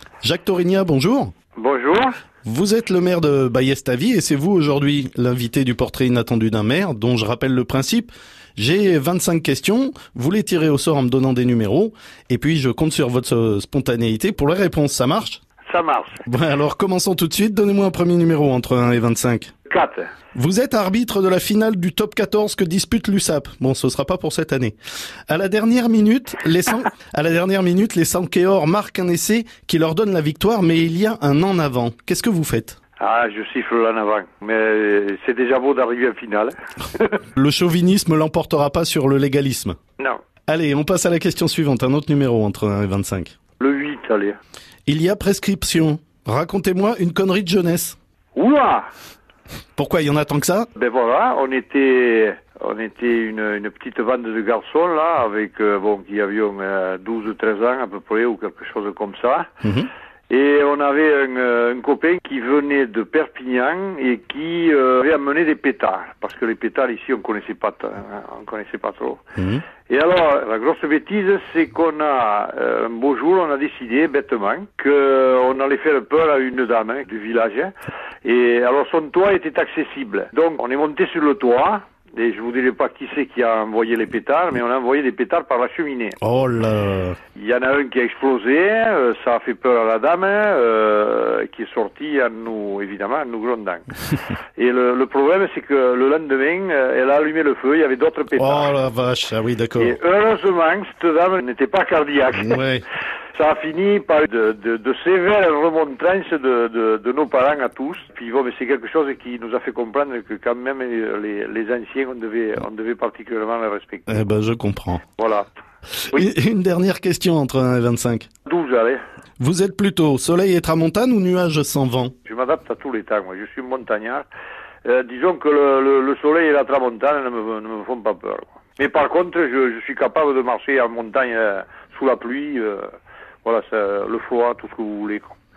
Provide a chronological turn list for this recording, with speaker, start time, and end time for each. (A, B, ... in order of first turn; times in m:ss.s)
0:00.2-0:01.3 A
0:01.6-0:02.1 B
0:02.4-0:15.4 A
0:15.7-0:16.2 B
0:16.3-0:19.5 A
0:19.7-0:20.1 B
0:20.3-0:24.7 A
0:25.3-0:32.8 A
0:33.0-0:37.2 B
0:37.4-0:39.8 A
0:40.5-0:43.4 A
0:43.6-0:44.4 B
0:44.9-0:48.0 A
0:48.4-0:48.9 B
0:49.8-0:50.7 A
0:50.8-0:59.5 B
0:59.6-0:59.9 A
1:00.3-1:09.2 B
1:09.4-1:09.6 A
1:09.9-1:17.7 B
1:18.2-1:26.2 B
1:26.2-1:27.2 A
1:27.4-1:33.9 B
1:34.6-1:38.7 B
1:38.4-1:40.0 A
1:39.8-1:42.6 B
1:42.4-1:42.8 A
1:43.4-1:54.2 B
1:54.1-1:55.0 A
1:55.2-1:55.5 B
1:56.0-1:58.3 A
1:58.5-1:59.0 B
1:59.4-2:02.1 A
2:02.2-2:04.3 B
2:04.8-2:12.9 B
2:13.4-2:15.3 B